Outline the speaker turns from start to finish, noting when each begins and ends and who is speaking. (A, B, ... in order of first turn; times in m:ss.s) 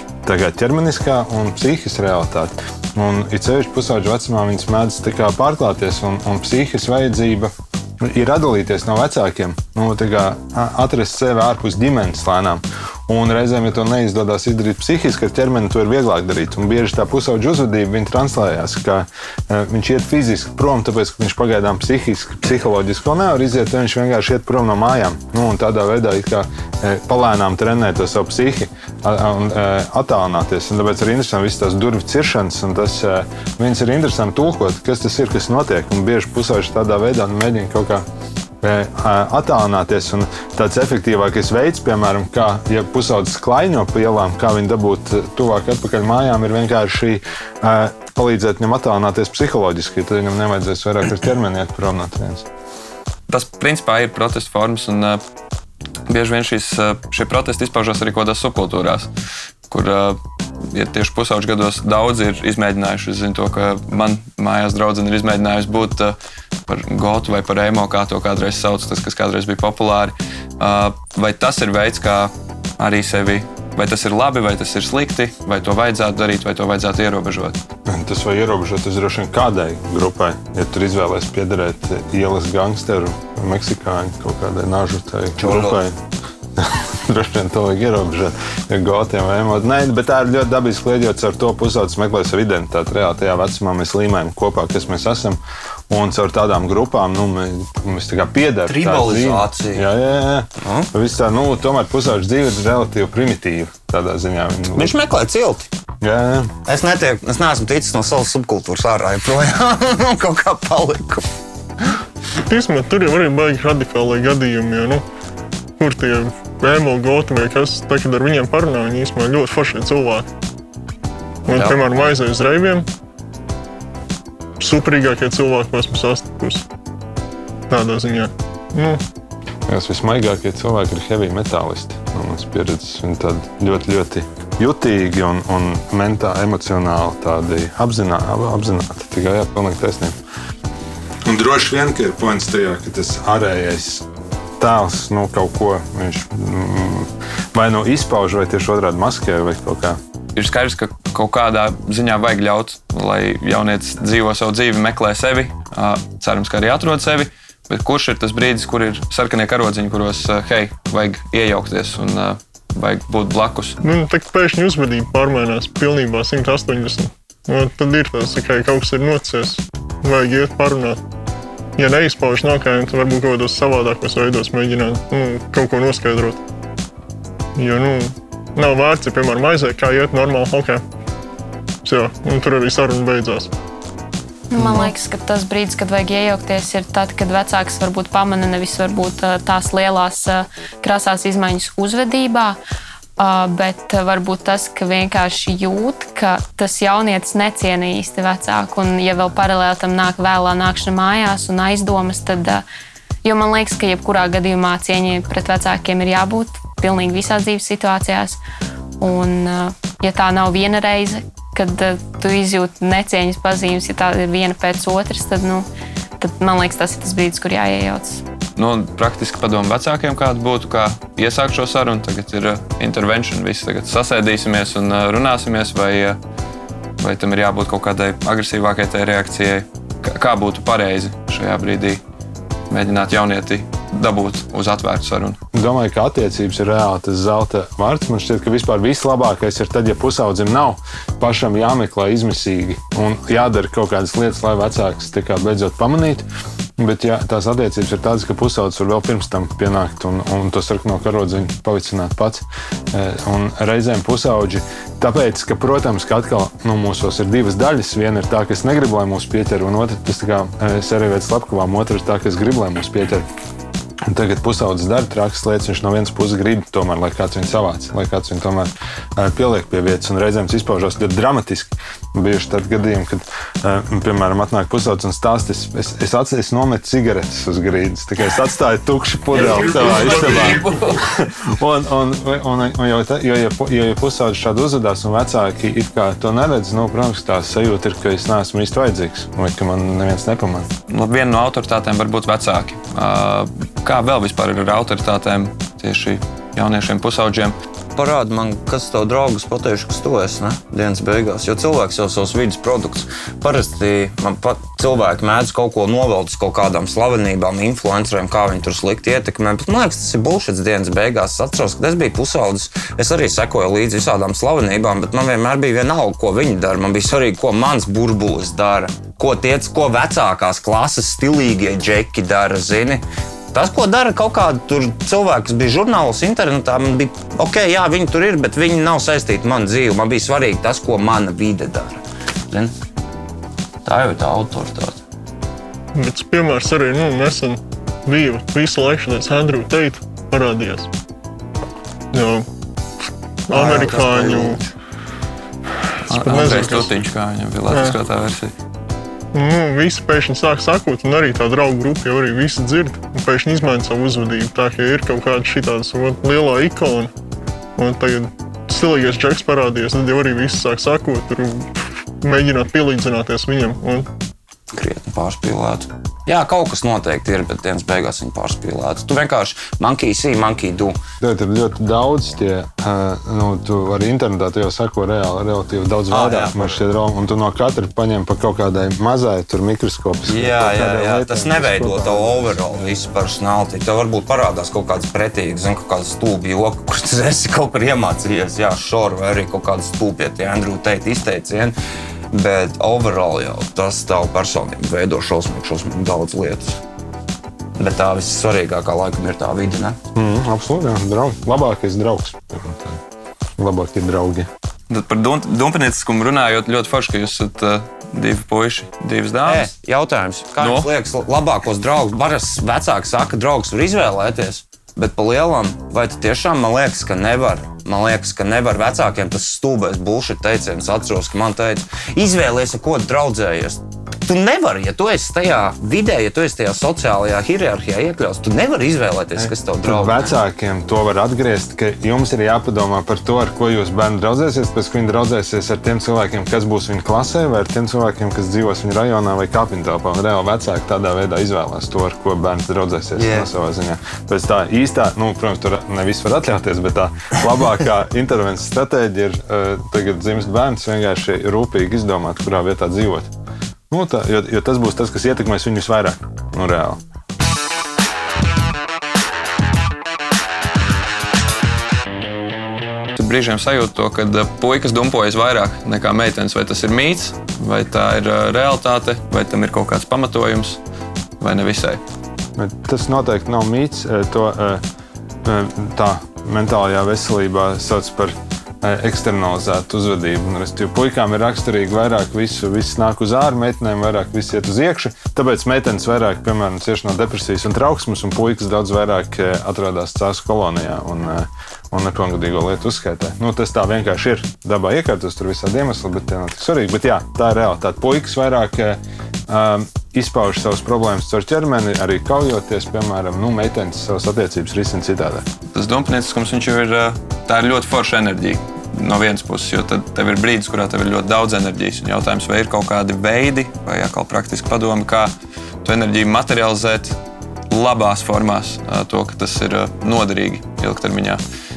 0:00.2-0:38.0 A
0:38.6-0:52.5 A
0:53.3-0:55.2 B
0:56.1-0:59.1 B
0:59.7-1:00.2 B
1:00.7-1:06.2 B
1:06.7-1:17.6 B
1:17.9-1:26.0 A
1:25.4-1:25.8 C
1:26.6-1:35.4 A
1:35.9-1:45.0 A
1:38.7-1:39.9 C
1:40.6-1:40.9 C
1:44.8-1:45.7 C
1:46.0-1:46.5 A
1:46.7-1:51.3 C
1:52.4-1:55.0 D
1:55.8-2:00.3 D
2:01.5-2:02.8 D
2:01.5-2:02.1 C
2:04.6-2:06.7 D
2:07.7-2:09.0 D
2:09.7-2:20.2 A
2:21.2-2:24.1 A
2:24.6-2:30.0 A
2:30.4-2:43.8 B
2:43.8-2:51.0 D
2:51.8-2:56.4 D
2:57.6-3:00.8 D
3:01.8-3:03.5 D
3:04.5-3:12.6 E
3:13.2-3:22.6 E
3:23.2-3:28.4 E
3:29.0-3:35.7 E
3:36.2-3:38.2 E
3:38.6-3:46.2 B
3:47.0-3:52.0 B
3:52.7-3:55.4 B
3:55.5-4:06.3 A
4:06.8-4:23.3 A
4:24.1-4:50.7 A
4:39.3-4:41.2 C
4:50.9-4:57.6 B
4:58.0-5:32.7 C
5:33.8-5:35.0 C
5:35.9-5:40.9 D
5:42.1-5:42.5 D
5:43.5-5:44.6 D
5:43.5-5:44.7 C
5:46.0-5:47.0 D
5:46.1-5:48.5 B
5:47.7-5:48.0 D
5:49.3-5:57.1 D
5:57.8-6:04.1 D
6:04.7-6:11.0 C
6:11.2-6:23.0 A
6:16.1-6:16.8 C
6:20.3-6:31.8 C
6:32.3-6:36.8 C
6:37.8-6:40.0 C
6:40.2-6:43.0 A
6:43.6-6:44.5 A
6:44.9-6:49.7 B
6:49.4-7:10.3 C
6:50.6-6:50.9 B
7:09.4-7:33.3 A
7:23.2-7:23.5 C
7:33.9-7:37.0 A
7:43.2-7:50.8 B
7:51.4-7:52.0 B
7:52.6-7:54.8 A
7:55.4-8:25.4 A
8:25.7-8:35.3 B
8:35.8-8:37.2 B
8:37.7-8:41.4 B